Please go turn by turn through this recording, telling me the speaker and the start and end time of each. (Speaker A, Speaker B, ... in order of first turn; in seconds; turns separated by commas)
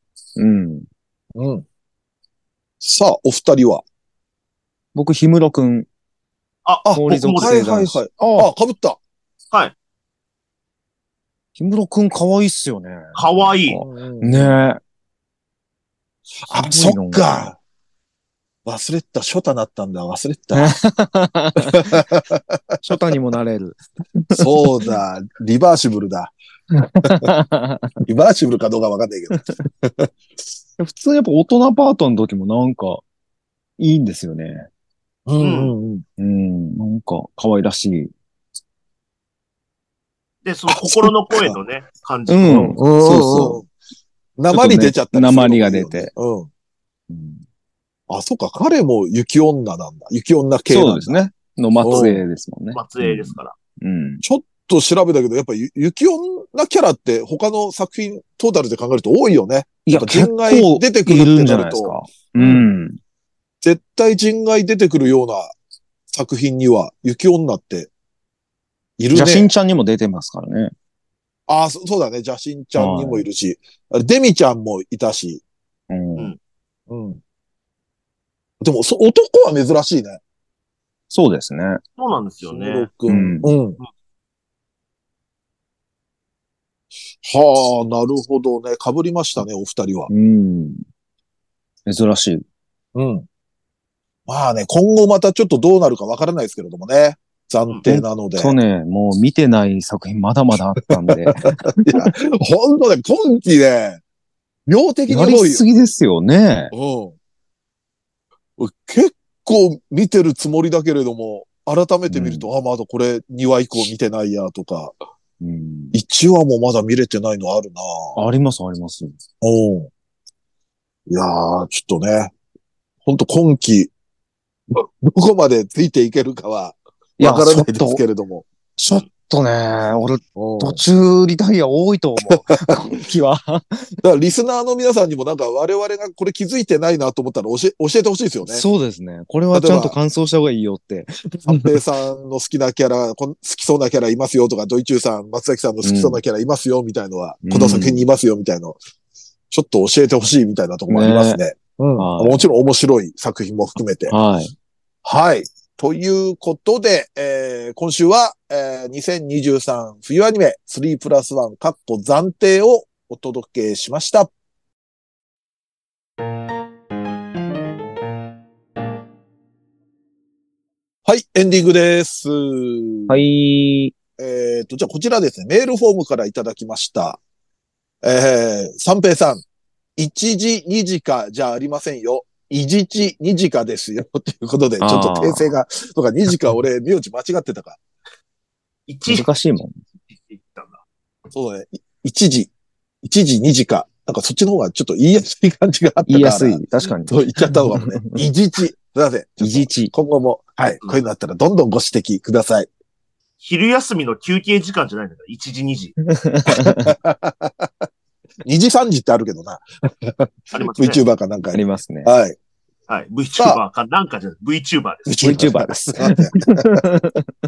Speaker A: 0.4-0.9, Speaker B: 1.4-1.6, Speaker B: 2.8-3.8, Speaker A: 5.0-5.9, Speaker C: 6.7-7.5, Speaker B: 6.8-9.0, Speaker A: 6.9-8.5, Speaker A: 11.6-14.8, Speaker C: 13.2-13.8, Speaker B: 13.8-14.6, Speaker B: 16.4-17.6, Speaker A: 16.5-17.2, Speaker B: 18.7-20.8, Speaker A: 20.6-22.0, Speaker B: 21.7-23.0, Speaker A: 22.8-24.7, Speaker B: 24.3-26.4, Speaker A: 26.8-28.0, Speaker B: 28.0-30.1, Speaker A: 30.8-33.0, Speaker A: 33.8-34.7, Speaker B: 35.3-36.0, Speaker C: 35.4-35.7, Speaker A: 36.2-38.1, Speaker C: 40.4-42.8, Speaker B: 40.7-41.6, Speaker A: 42.3-43.6, Speaker B: 42.6-43.7, Speaker B: 44.4-46.5, Speaker A: 44.5-46.1, Speaker A: 47.1-47.4, Speaker B: 48.1-51.3, Speaker A: 50.7-54.2, Speaker B: 51.8-52.2, Speaker C: 52.7-53.6, Speaker B: 54.2-62.7, Speaker A: 59.9-63.0, Speaker B: 63.6-65.5, Speaker B: 66.1-67.9, Speaker B: 69.0-69.5, Speaker A: 69.1-70.7, Speaker B: 71.5-75.4, Speaker A: 72.8-73.3, Speaker A: 75.9-76.3, Speaker B: 76.9-77.2, Speaker B: 78.6-80.2, Speaker A: 81.1-81.8, Speaker C: 82.0-82.9, Speaker B: 82.5-83.8, Speaker A: 83.1-83.5, Speaker B: 87.2-90.1, Speaker A: 90.1-90.8, Speaker A: 91.9-92.4, Speaker B: 93.0-93.3, Speaker B: 94.3-98.6, Speaker A: 97.8-102.1, Speaker B: 101.0-104.0, Speaker B: 104.7-105.7, Speaker A: 105.1-106.7, Speaker B: 106.7-107.2, Speaker B: 108.6-115.0, Speaker A: 112.1-112.5, Speaker A: 115.4-116.0, Speaker B: 115.9-118.2, Speaker A: 118.2-119.2, Speaker B: 119.4-119.9, Speaker B: 121.1-122.3, Speaker B: 123.0-123.9, Speaker B: 124.7-128.4, Speaker A: 127.2-128.0, Speaker A: 128.8-134.0, Speaker B: 130.4-130.8, Speaker B: 132.3-133.0, Speaker B: 134.0-138.6, Speaker A: 138.5-141.8, Speaker B: 139.5-140.0, Speaker B: 141.4-148.8, Speaker A: 145.8-146.2, Speaker A: 147.4-148.0, Speaker B: 149.5-154.1, Speaker A: 150.9-151.4, Speaker A: 152.0-152.5, Speaker A: 154.1-154.5, Speaker B: 155.0-164.3, Speaker B: 171.1-173.2, Speaker A: 173.1-173.9, Speaker B: 174.2-177.2, Speaker B: 178.0-179.4, Speaker B: 180.0-187.8, Speaker A: 184.8-185.5, Speaker C: 188.9-189.3, Speaker A: 189.1-189.7, Speaker C: 190.1-190.8, Speaker B: 191.3-192.5, Speaker B: 193.0-202.7, Speaker A: 196.1-198.2, Speaker A: 199.4-199.9, Speaker C: 203.4-206.0, Speaker A: 206.1-206.9, Speaker B: 206.6-207.8, Speaker B: 208.4-212.4, Speaker C: 210.5-211.0, Speaker A: 211.5-212.1, Speaker C: 212.9-215.5, Speaker B: 215.1-216.8, Speaker A: 215.2-217.3